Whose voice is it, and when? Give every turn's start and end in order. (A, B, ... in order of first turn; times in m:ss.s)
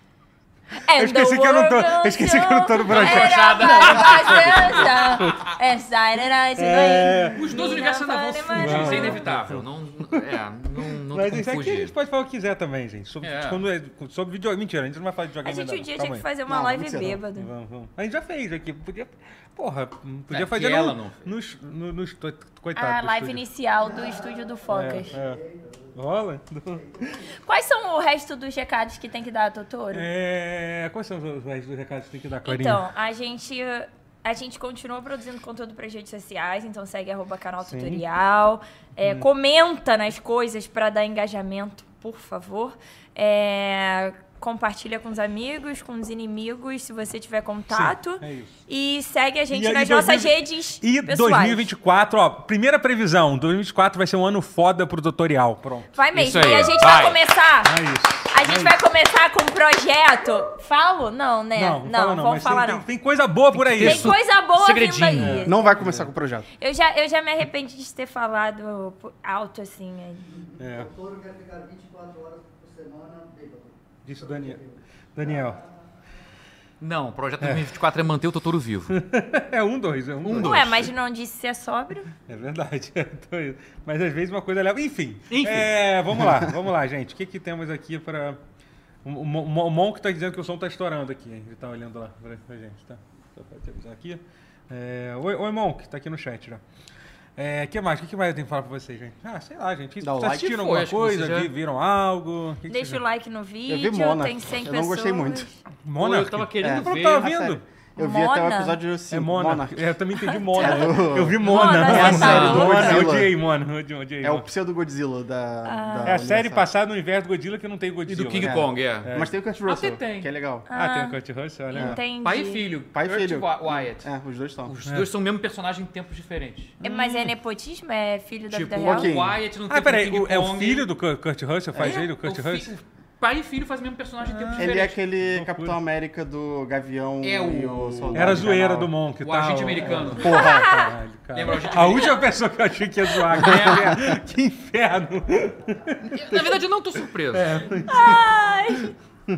0:00.7-0:09.2 A
0:01.0-0:05.5 B
0:02.9-0:05.2 C
0:06.6-0:07.4 B
0:07.3-0:11.9 C
0:08.5-0:16.3 B
0:13.2-0:13.6 C
0:15.4-0:17.5 A
0:16.5-0:17.2 D
0:17.3-0:23.4 B
0:20.3-0:21.2 C
0:22.7-0:25.2 A
0:23.8-0:25.9 E
0:24.7-0:25.4 B
0:25.9-0:27.2 B
0:26.9-0:27.3 E
0:27.4-0:30.1 A
0:29.9-0:32.8 B
0:32.4-0:51.7 A
0:37.6-0:38.0 B
0:39.0-0:39.3 B
0:47.7-0:48.5 B
0:49.5-0:56.7 B
0:55.9-0:57.7 A
0:56.1-0:57.2 C
0:57.6-0:58.8 B
0:58.3-1:02.8 A
1:01.5-1:04.2 B
1:03.5-1:05.5 C
1:03.8-1:05.6 A
1:05.1-1:06.1 B
1:05.4-1:06.5 D
1:06.6-1:10.3 A
1:10.3-1:15.7 E
1:10.6-1:10.9 B
1:14.0-1:14.6 B
1:15.1-1:15.6 B
1:16.8-1:19.0 C
1:17.4-1:17.7 B
1:18.9-1:20.9 B
1:20.2-1:20.9 C
1:20.4-1:22.1 A
1:22.3-1:28.4 B
1:25.3-1:25.7 C
1:29.0-1:36.6 B
1:37.4-1:43.0 B
1:40.0-1:40.4 D
1:40.3-1:41.5 C
1:42.7-1:45.6 A
1:43.7-1:45.5 D
1:45.8-1:47.6 B
1:46.0-1:47.3 C
1:46.6-1:50.0 D
1:48.0-1:48.8 A
1:49.1-1:54.5 B
1:50.2-1:53.0 A
1:50.5-1:53.3 D
1:51.8-1:53.1 C
1:54.2-1:56.6 D
1:55.6-1:56.2 A
1:56.0-1:59.3 B
1:58.1-1:59.1 C
1:58.4-2:00.6 D
1:59.6-2:00.3 C
2:00.7-2:01.2 A
2:00.7-2:02.0 B
2:01.7-2:02.6 A
2:02.2-2:04.1 C
2:02.9-2:04.7 D
2:04.6-2:06.8 C
2:06.8-2:07.3 B
2:06.8-2:09.1 A
2:08.5-2:10.8 C
2:08.8-2:09.4 D
2:09.7-2:12.7 B
2:11.7-2:12.0 D
2:11.8-2:15.0 C
2:14.2-2:15.8 B
2:14.6-2:18.9 D
2:17.2-2:18.5 C
2:18.1-2:26.5 B
2:19.2-2:20.4 C
2:19.8-2:20.7 D
2:20.2-2:22.0 A
2:21.3-2:22.3 C
2:23.3-2:24.0 C
2:23.4-2:24.2 D
2:26.1-2:27.8 C
2:27.3-2:28.3 B
2:27.8-2:28.9 A